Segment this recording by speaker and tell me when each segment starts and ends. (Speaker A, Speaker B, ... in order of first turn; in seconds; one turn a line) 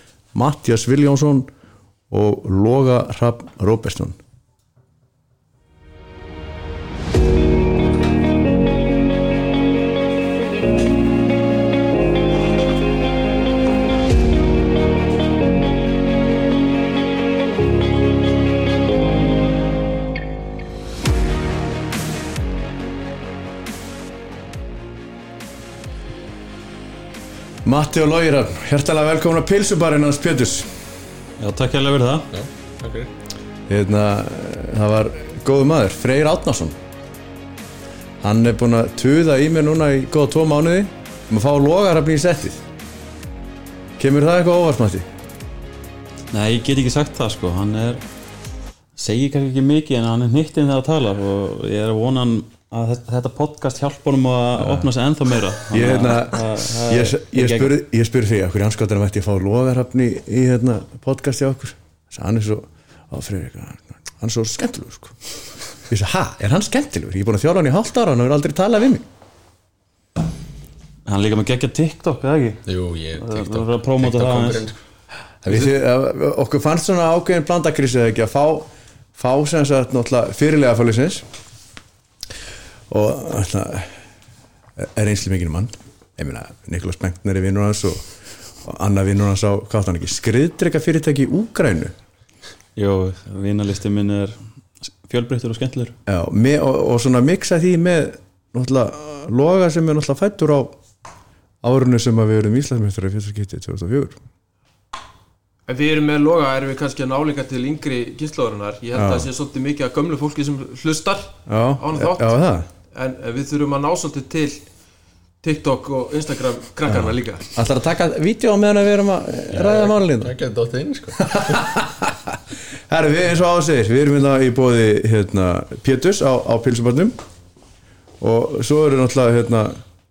Speaker A: 0.3-1.5
Speaker A: 2.1-4.2
Speaker A: 27.6-30.7
Speaker B: 31.4-32.3
Speaker C: 32.3-33.1
Speaker A: 33.7-36.8
Speaker A: 38.2-42.6
Speaker A: 44.0-45.0
Speaker B: 46.3-48.0
Speaker B: 49.0-57.8
Speaker A: 54.6-54.9
Speaker A: 55.7-65.2
Speaker A: 65.9-69.0
Speaker B: 71.0-72.6
Speaker C: 72.7-74.8
Speaker B: 73.2-74.6
Speaker A: 75.4-81.2
Speaker A: 82.9-83.9
Speaker A: 84.8-88.0
Speaker A: 88.6-91.9
Speaker B: 92.8-95.9
Speaker A: 96.1-100.8
Speaker A: 101.6-104.2
Speaker D: 105.7-112.3
Speaker A: 108.9-109.3
Speaker A: 111.5-112.7
Speaker D: 112.9-114.6
Speaker D: 115.4-117.5
Speaker A: 116.9-120.3
Speaker C: 119.5-121.7
Speaker A: 121.2-122.4
Speaker A: 122.9-127.1
Speaker A: 128.2-129.8